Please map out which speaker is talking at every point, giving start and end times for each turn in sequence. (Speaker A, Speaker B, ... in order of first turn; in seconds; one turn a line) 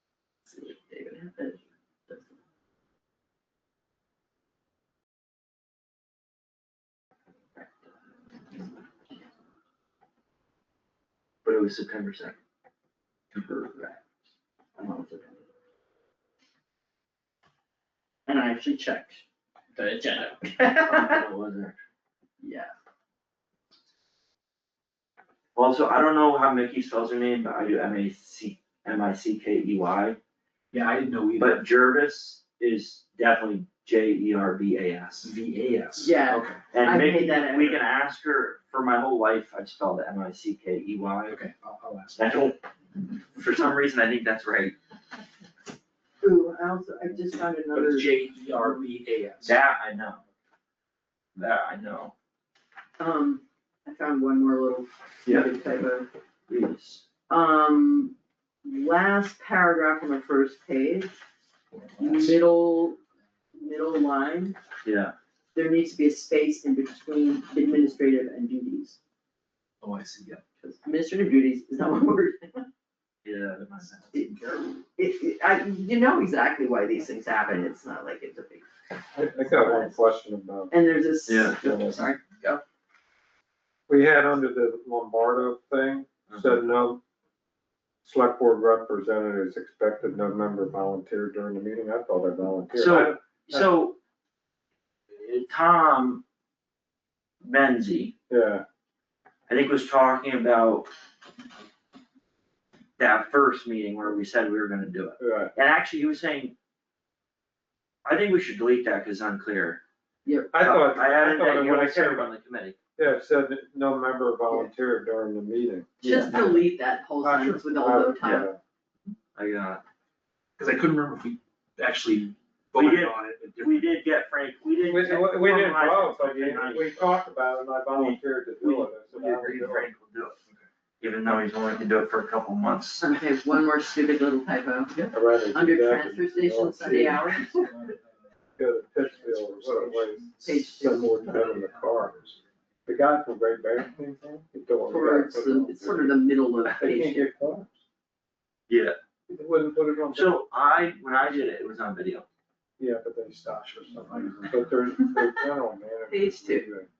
Speaker A: 0.5-2.2
Speaker B: 11.4-12.4
Speaker A: 13.3-14.0
Speaker A: 14.8-15.4
Speaker A: 18.3-19.2
Speaker A: 19.7-21.2
Speaker B: 20.9-21.8
Speaker A: 22.4-22.7
Speaker B: 25.6-30.2
Speaker C: 30.7-31.6
Speaker B: 31.4-35.3
Speaker C: 35.2-36.7
Speaker A: 36.0-37.8
Speaker B: 36.7-41.4
Speaker C: 41.3-42.5
Speaker B: 42.1-42.6
Speaker B: 43.3-44.8
Speaker A: 46.2-48.8
Speaker C: 47.7-49.6
Speaker B: 49.4-50.2
Speaker B: 51.4-52.1
Speaker A: 53.0-56.1
Speaker B: 56.5-57.0
Speaker A: 57.3-61.2
Speaker C: 61.7-62.4
Speaker A: 62.0-63.0
Speaker A: 63.5-64.6
Speaker B: 64.8-65.1
Speaker A: 65.5-69.0
Speaker C: 69.8-70.4
Speaker A: 70.6-72.6
Speaker B: 73.2-74.0
Speaker C: 73.9-74.5
Speaker A: 74.1-78.7
Speaker D: 79.1-80.7
Speaker A: 79.2-79.9
Speaker A: 80.7-82.6
Speaker B: 81.3-82.0
Speaker D: 83.9-87.0
Speaker B: 86.3-86.6
Speaker D: 88.0-93.7
Speaker B: 92.7-94.0
Speaker B: 95.2-96.2
Speaker B: 97.4-98.1
Speaker D: 98.3-98.6
Speaker B: 99.5-100.9
Speaker B: 103.0-106.5
Speaker D: 105.2-105.5
Speaker B: 108.0-109.8
Speaker A: 110.2-110.6
Speaker D: 110.5-112.3
Speaker B: 110.6-112.8
Speaker D: 113.0-116.6
Speaker B: 116.0-116.5
Speaker A: 116.0-118.5
Speaker D: 117.2-118.6
Speaker B: 119.3-119.8
Speaker C: 120.6-123.9
Speaker B: 122.7-127.2
Speaker D: 124.8-129.9
Speaker B: 127.9-130.4
Speaker B: 131.0-133.1
Speaker A: 133.0-135.0
Speaker D: 135.1-137.2
Speaker A: 135.5-137.7
Speaker C: 137.1-138.1
Speaker D: 138.6-142.3
Speaker C: 139.0-142.4
Speaker A: 140.4-141.1
Speaker D: 142.8-147.8
Speaker A: 144.9-147.2
Speaker B: 148.7-148.9
Speaker D: 149.3-150.4
Speaker B: 150.1-152.2
Speaker D: 152.8-156.9
Speaker C: 153.9-154.7
Speaker A: 156.1-156.6